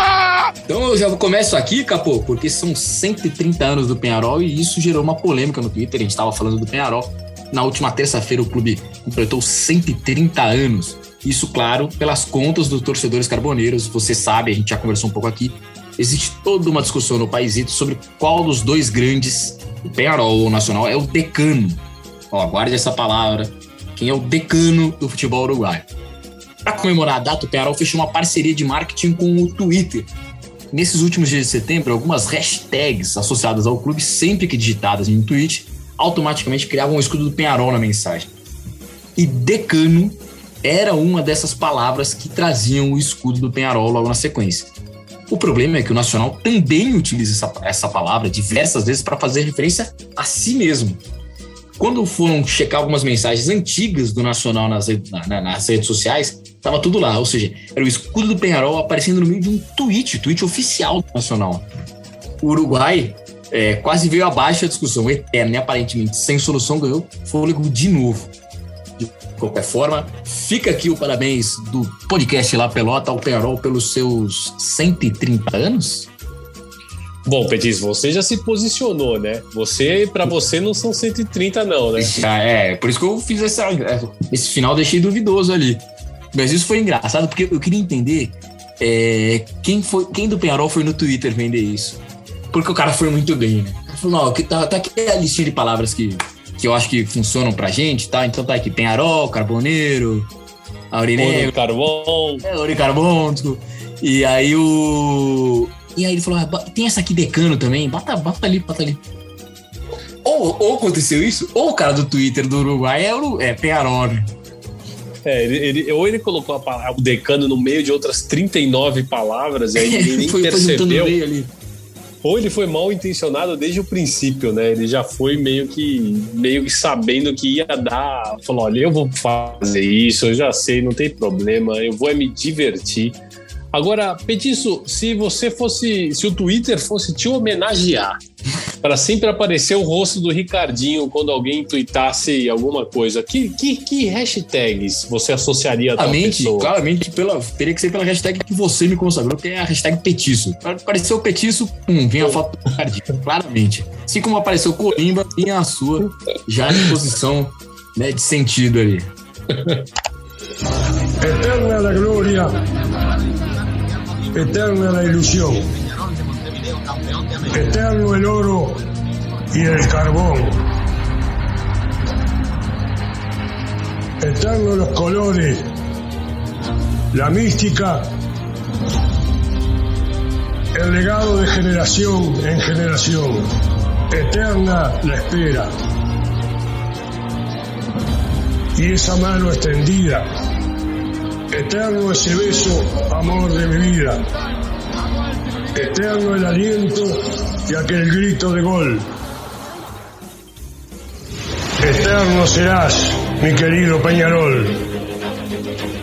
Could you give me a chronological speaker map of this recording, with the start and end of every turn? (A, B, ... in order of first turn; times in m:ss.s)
0:00.6-0:25.9 A
0:26.6-0:30.1 A
0:30.7-0:38.3 A
0:39.2-0:44.7 A
0:45.3-0:51.0 A
0:51.8-1:01.6 A
1:02.4-1:08.3 A
1:09.0-1:16.1 A
1:17.2-1:22.2 B
1:22.0-1:40.3 A
1:40.9-1:41.5 A
1:41.2-1:42.4 B
1:42.4-1:49.0 A
1:50.2-1:54.3 A
1:55.2-2:01.1 B
1:59.7-2:01.5 A
2:02.2-2:13.2 B
2:13.7-2:18.2 B
2:18.8-2:26.7 B
2:26.0-2:39.1 A
2:41.2-2:42.6 C
2:44.3-2:45.7 C
2:45.9-2:47.4 A
2:47.5-2:48.8 C
2:49.5-2:50.6 C
2:54.2-2:55.6 C
2:57.1-2:58.0 C
3:00.7-3:03.4 C
3:04.1-3:05.7 C
3:08.8-3:10.2 C
3:11.5-3:14.2 C
3:15.7-3:17.2 C
3:17.7-3:19.0 C
3:21.8-3:24.8 C